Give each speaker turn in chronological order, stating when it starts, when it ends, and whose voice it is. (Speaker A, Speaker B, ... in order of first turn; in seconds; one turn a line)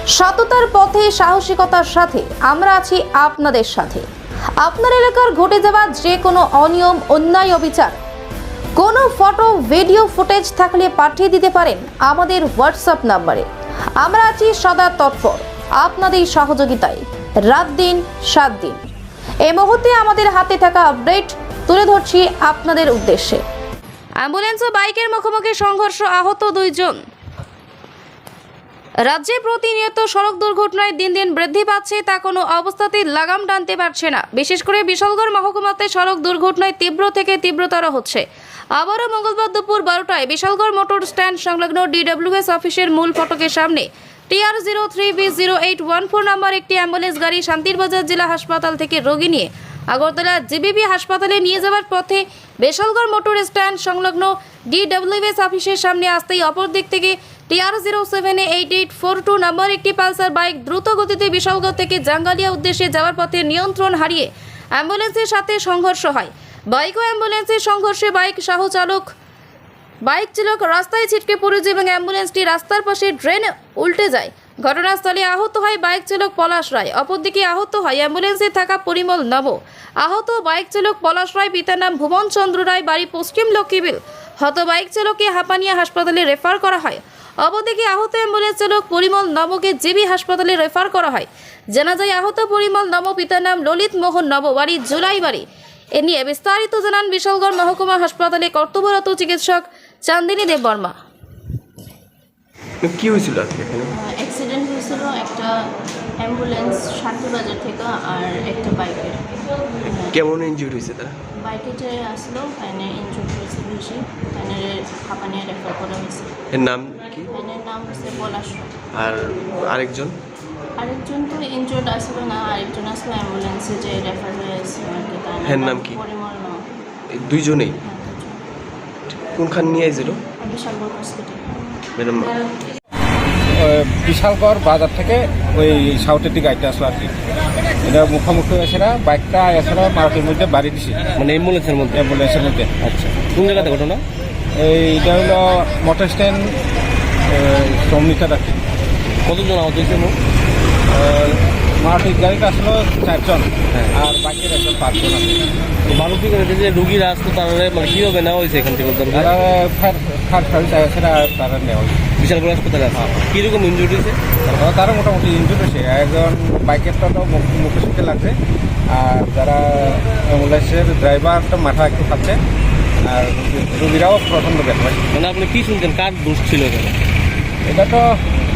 Speaker A: 0.1-4.0
Speaker A: 4.6-8.0
Speaker A: 8.7-13.4
Speaker A: 14.0-18.8
Speaker A: 19.4-23.4
Speaker A: 24.2-27.0
Speaker A: 29.0-69.1
Speaker A: 70.0-101.0
Speaker B: 102.8-103.9
Speaker C: 104.0-105.6
Speaker C: 106.2-110.2
Speaker B: 109.9-111.2
Speaker C: 111.4-116.3
Speaker B: 116.5-117.3
Speaker C: 117.3-118.8
Speaker B: 118.9-120.1
Speaker C: 120.8-126.7
Speaker B: 125.4-126.0
Speaker B: 127.1-127.8
Speaker C: 127.8-128.4
Speaker B: 129.1-130.2
Speaker C: 130.4-131.8
Speaker B: 131.9-132.3
Speaker D: 133.4-137.1
Speaker D: 137.8-141.1
Speaker E: 141.2-142.0
Speaker D: 141.9-142.7
Speaker E: 142.8-144.0
Speaker D: 144.5-146.6
Speaker D: 147.2-148.6
Speaker E: 149.2-150.2
Speaker D: 150.9-155.4
Speaker E: 155.9-159.3
Speaker D: 159.1-162.0
Speaker E: 162.2-164.2
Speaker D: 164.5-168.4
Speaker D: 168.9-172.4
Speaker D: 173.0-175.1
Speaker E: 175.1-176.9
Speaker D: 177.7-178.2